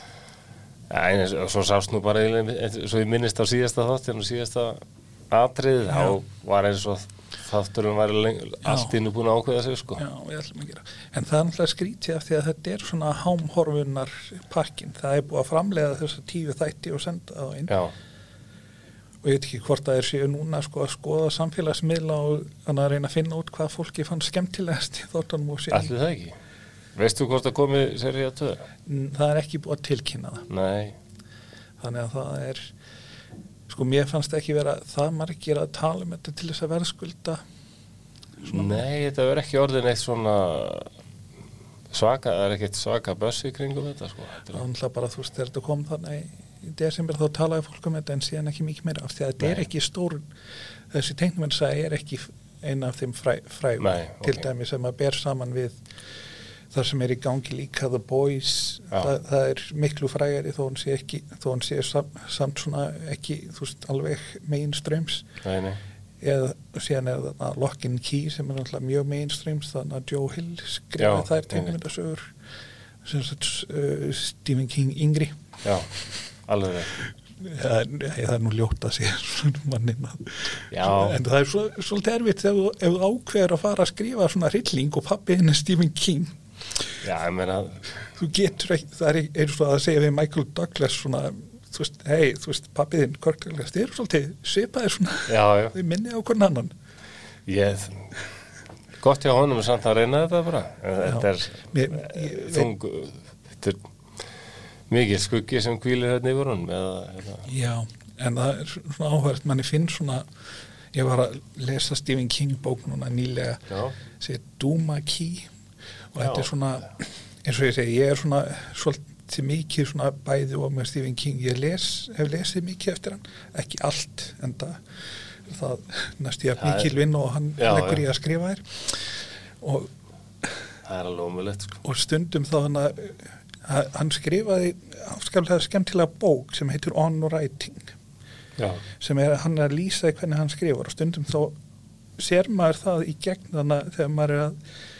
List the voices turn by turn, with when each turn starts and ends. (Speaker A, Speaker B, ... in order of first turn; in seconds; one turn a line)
Speaker A: 0.9-10.0
Speaker B: 8.6-8.9
Speaker B: 10.0-17.7
Speaker A: 17.7-17.9
Speaker B: 19.2-25.9
Speaker A: 25.7-26.4
Speaker A: 26.9-28.7
Speaker B: 28.9-30.5
Speaker A: 30.5-31.0
Speaker B: 31.8-32.7
Speaker B: 33.7-37.4
Speaker A: 38.4-40.9
Speaker B: 38.5-38.8
Speaker A: 41.9-44.6
Speaker B: 44.5-50.3
Speaker B: 50.9-55.8
Speaker A: 53.8-54.5
Speaker B: 56.7-65.3
Speaker A: 65.4-65.8
Speaker B: 66.2-72.3
Speaker A: 71.0-71.8
Speaker B: 73.0-75.4
Speaker A: 75.6-75.9
Speaker A: 76.5-77.0
Speaker B: 77.4-86.3
Speaker A: 80.7-81.2
Speaker A: 87.0-87.9
Speaker B: 88.1-96.7
Speaker A: 95.3-95.8
Speaker A: 97.5-98.2
Speaker A: 99.0-103.8
Speaker B: 101.0-102.7
Speaker A: 104.9-107.5
Speaker B: 107.5-110.3
Speaker B: 110.9-115.5
Speaker A: 113.7-114.0
Speaker B: 116.1-124.8
Speaker A: 116.2-116.5
Speaker B: 125.5-129.9
Speaker A: 126.6-126.9
Speaker A: 127.6-128.0
Speaker A: 130.8-131.8
Speaker B: 131.8-137.9
Speaker A: 138.6-138.8
Speaker B: 139.0-141.6
Speaker B: 142.2-144.6